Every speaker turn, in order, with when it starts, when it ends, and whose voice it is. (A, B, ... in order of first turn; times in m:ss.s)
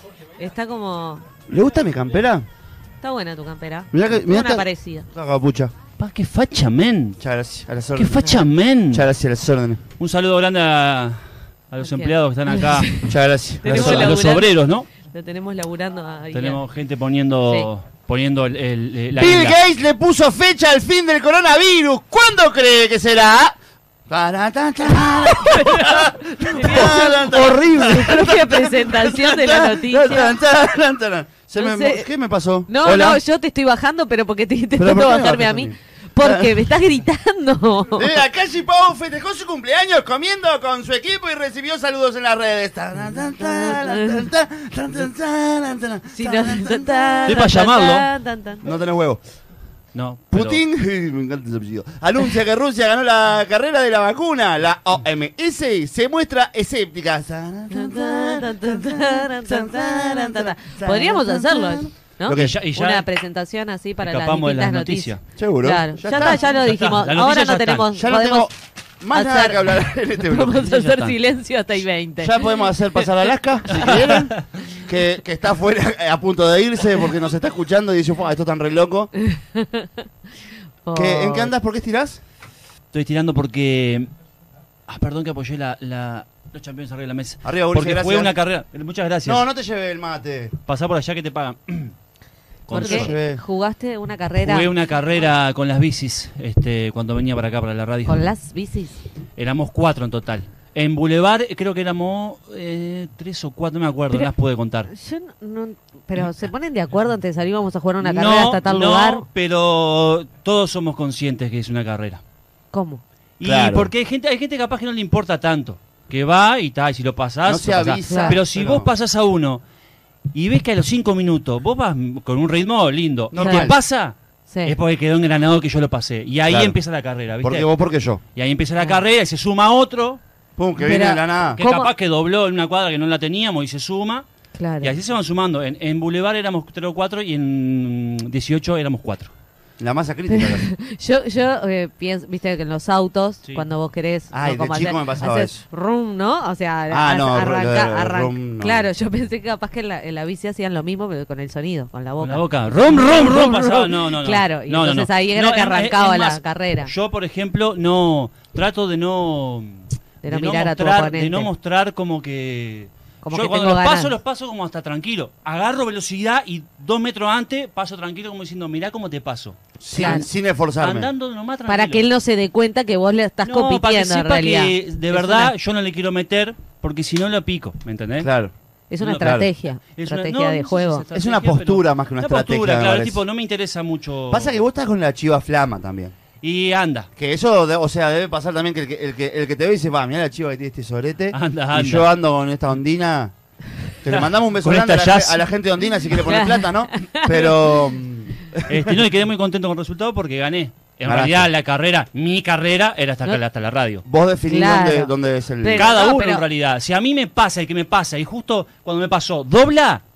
0:00.4-0:01.2 A
0:01.5-0:02.4 B
0:03.0-0:05.0 A
0:03.9-0:05.7 B
0:06.0-0:07.2 C
0:07.2-0:08.4 B
0:07.9-0:09.0 C
0:08.9-0:09.8 B
0:10.0-0:13.0 C
0:11.8-0:13.1 A
0:13.0-0:14.2 B
0:13.6-0:14.5 A
0:13.6-0:14.9 C
0:15.1-0:16.6 A
0:16.3-0:19.6 C
0:19.2-0:23.6 B
0:24.1-0:33.2 B
0:25.0-0:30.4 A
0:31.6-0:32.1 A
0:32.7-0:38.2 A
0:34.8-0:36.6 B
0:38.0-0:47.4 B
0:43.4-0:44.3 A
0:46.1-0:48.6 A
0:47.3-0:48.1 C
0:48.6-0:49.2 B
0:49.9-0:50.6 C
0:50.3-1:02.6 B
0:57.7-1:08.5 A
1:02.3-1:03.0 C
1:04.0-1:05.2 C
1:05.4-1:06.4 B
1:06.4-1:07.9 C
1:07.9-1:10.6 B
1:09.1-1:12.6 A
1:10.4-1:11.2 C
1:12.2-1:19.1 B
1:13.9-1:14.3 C
1:19.2-1:20.0 A
1:20.8-1:21.5 A
1:20.9-1:22.2 B
1:22.9-1:24.1 C
1:24.9-1:29.4 C
1:27.4-1:28.3 B
1:29.2-1:30.5 B
1:30.6-1:31.9 C
1:32.7-1:33.1 C
1:32.7-1:33.4 B
1:32.7-1:34.7 A
1:34.4-1:38.3 C
1:38.0-1:39.0 A
1:39.4-1:44.9 C
1:44.9-1:49.2 A
1:48.0-1:52.2 C
1:52.7-1:53.0 A
1:53.4-1:59.6 C
1:53.4-1:53.9 B
1:57.4-1:58.9 B
1:58.1-1:58.4 A
2:00.3-2:07.7 C
2:03.3-2:03.8 B
2:03.4-2:03.7 A
2:04.5-2:04.8 A
2:06.5-2:06.8 B
2:07.4-2:08.2 B
2:08.3-2:10.2 C
2:10.6-2:11.6 B
2:10.8-2:11.9 A
2:11.5-2:14.2 C
2:14.5-2:14.9 A
2:14.8-2:19.3 C
2:19.8-2:20.7 B
2:20.3-2:36.9 A
2:24.3-2:25.6 B
2:26.9-2:28.9 B
2:32.2-2:50.3 C
2:40.2-2:41.5 A
2:43.2-2:44.1 A
2:49.8-2:51.1 B
2:49.9-2:50.2 A
2:50.8-2:52.0 C
2:51.7-2:55.5 A
2:53.4-2:58.3 C
2:58.2-2:58.5 B
2:58.9-3:01.0 A
2:59.0-3:04.6 C
2:59.2-2:59.5 B
3:01.1-3:03.2 B
3:04.3-3:06.1 B
3:06.4-3:07.1 C
3:07.2-3:13.3 B
3:11.3-3:12.1 C
3:14.0-3:19.0 B
3:14.1-3:15.4 C
3:16.2-3:17.8 A
3:18.7-3:24.0 C
3:21.0-3:21.5 B
3:24.0-3:25.9 B
3:24.5-3:25.1 A
3:25.6-3:26.4 A
3:25.7-3:30.0 C